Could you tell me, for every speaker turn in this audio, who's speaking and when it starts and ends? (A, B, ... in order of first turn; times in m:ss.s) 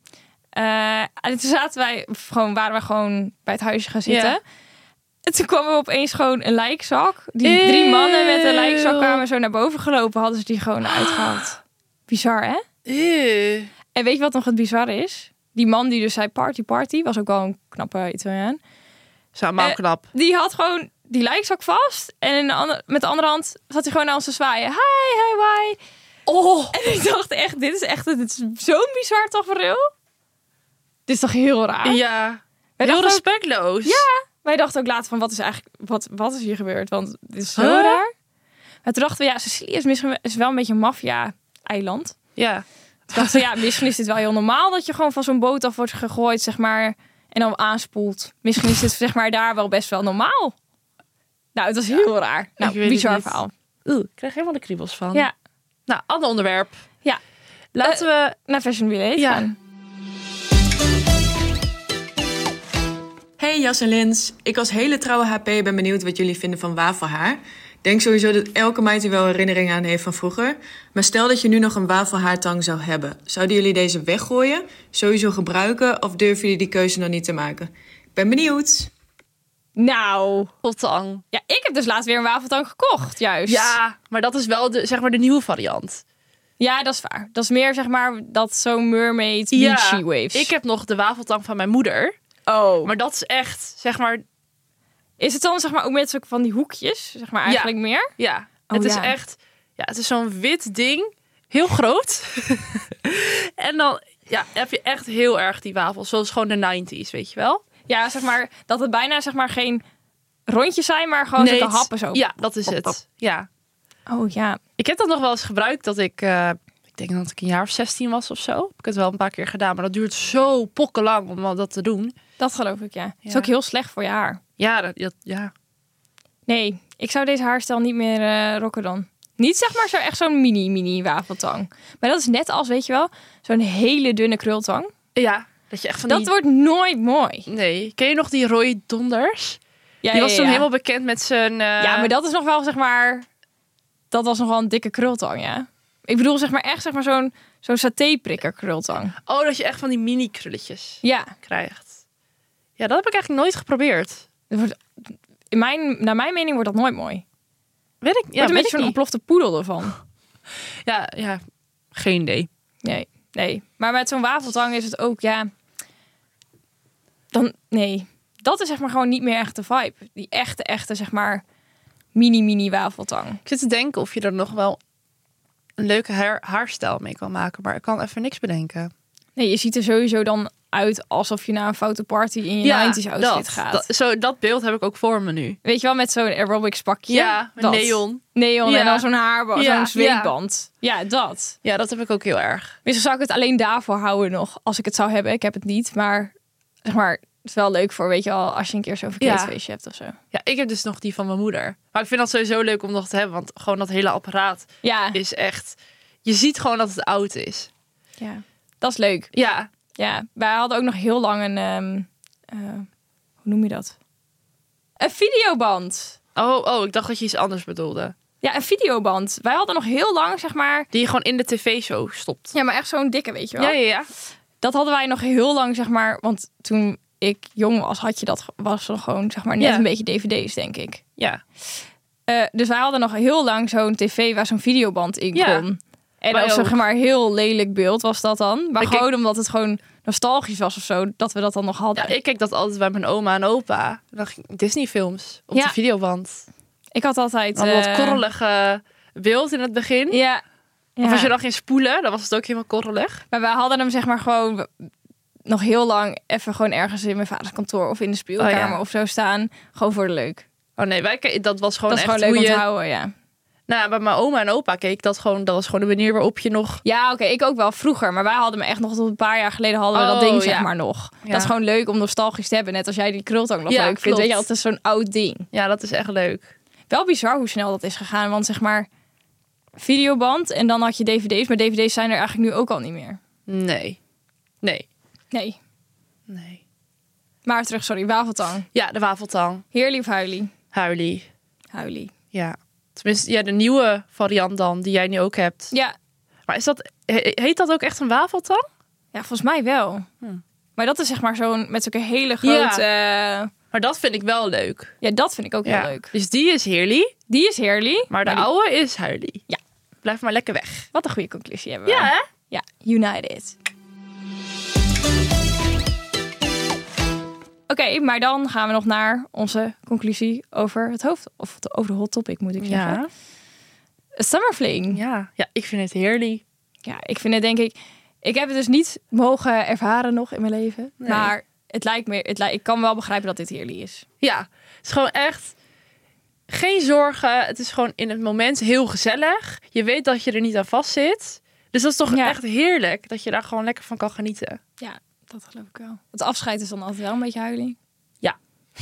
0:00.6-0:04.4 A
0:04.1-0:04.4 B
0:05.3-0:12.6 A
0:07.4-0:09.2 B
0:12.9-0:13.7 B
0:14.0-0:18.6 A
0:19.4-0:20.1 B
0:19.6-0:25.8 A
0:26.3-0:26.8 B
0:26.7-0:29.9 A
0:31.1-0:32.0 A
0:31.8-0:34.0 B
0:32.8-0:33.2 A
0:33.8-0:38.1 A
0:37.6-0:38.0 B
0:38.8-0:42.2 A
0:42.4-0:43.4 B
0:43.1-0:50.6 A
0:51.6-0:53.5 A
0:52.6-0:55.3 B
0:55.9-0:56.8 B
0:57.8-0:58.4 B
0:57.8-0:59.6 A
0:59.2-0:59.5 B
1:03.4-1:18.9 C
1:19.8-1:20.5 A
1:20.6-1:21.2 B
1:21.3-1:23.8 A
1:23.5-1:26.0 B
1:26.6-1:30.5 A
1:29.5-1:32.1 B
1:32.5-1:32.9 A
1:32.8-1:34.2 B
1:35.2-1:38.1 A
1:37.5-1:47.6 B
1:38.7-1:39.1 A
1:47.9-1:49.8 A
1:50.5-1:53.0 A
1:51.4-1:53.5 B
1:54.1-1:54.6 A
1:54.8-2:02.1 B
2:02.4-2:04.4 A
2:04.6-2:05.5 B
2:06.5-2:14.9 A
2:15.2-2:16.3 B
2:16.1-2:17.5 A
2:17.5-2:19.6 B
2:20.0-2:20.7 A
2:20.1-2:22.1 B
2:21.8-2:23.3 A
2:24.1-2:29.1 A
2:29.2-2:32.0 B
2:31.0-2:31.3 A
2:32.8-2:34.3 B
2:34.5-2:37.2 A
2:38.0-2:39.0 B
2:38.4-2:40.0 A
2:40.9-2:41.4 B
2:41.9-2:42.5 B
2:42.8-2:45.5 A
2:47.3-2:51.4 A
2:52.2-2:53.4 A
2:53.4-2:54.8 B
2:55.8-2:58.9 B
2:59.4-3:03.9 A
3:02.6-3:05.6 B
3:05.6-3:11.6 A
3:07.1-3:10.3 B
3:11.6-3:12.8 B
3:12.8-3:16.3 A
3:16.8-3:20.2 A
3:19.2-3:19.5 B
3:20.3-3:27.7 B
3:24.8-3:25.2 A
3:28.2-3:29.3 A
3:29.3-3:29.7 B
3:30.0-3:32.9 A
3:33.4-3:34.0 A
3:35.0-3:36.2 A
3:36.4-3:38.2 B
3:38.4-3:40.9 A
3:40.9-3:42.6 B
3:42.5-3:43.8 A
3:43.6-3:44.1 B
3:44.6-3:51.0 A
3:49.6-3:49.9 B
3:51.2-3:51.4 B
3:52.3-4:02.1 A
3:55.3-3:55.6 B
3:56.3-3:56.8 B
3:58.8-3:59.0 B
4:02.0-4:06.5 B
4:06.9-4:08.2 A
4:07.6-4:10.2 B
4:10.1-4:10.4 A
4:11.0-4:11.3 A
4:11.0-4:13.2 B
4:13.3-4:14.9 A
4:15.5-4:20.4 A
4:18.4-4:18.8 B
4:20.8-4:22.6 B
4:21.9-4:23.1 A
4:23.7-4:26.8 B
4:26.8-4:35.5 A
4:29.9-4:30.7 B
4:31.2-4:31.5 B
4:33.7-4:34.5 B
4:35.5-4:36.5 B
4:36.9-4:38.9 A
4:39.8-4:43.2 A
4:43.5-4:44.0 B
4:44.6-4:44.9 B
4:45.3-4:45.6 A
4:46.3-4:46.6 B
4:47.4-4:48.7 A
4:48.7-4:49.6 B
4:49.7-4:50.5 A
4:50.7-4:51.3 B
4:51.7-4:52.1 A
4:52.3-4:55.7 B
4:56.5-4:58.6 B
4:59.1-5:00.1 A
5:00.8-5:03.5 A
5:02.4-5:02.8 B
5:03.7-5:04.9 B
5:05.0-5:06.1 A
5:05.6-5:07.1 B
5:07.3-5:08.5 A
5:08.1-5:09.4 B
5:10.0-5:10.9 B
5:10.9-5:13.6 A
5:11.9-5:12.2 B
5:17.7-5:23.0 A
5:22.6-5:23.1 B
5:24.2-5:25.0 A
5:24.9-5:26.4 B
5:26.8-5:34.1 A
5:31.0-5:31.3 B
5:34.2-5:35.6 B
5:36.5-5:44.6 B
5:42.1-5:42.4 A
5:44.8-5:47.8 A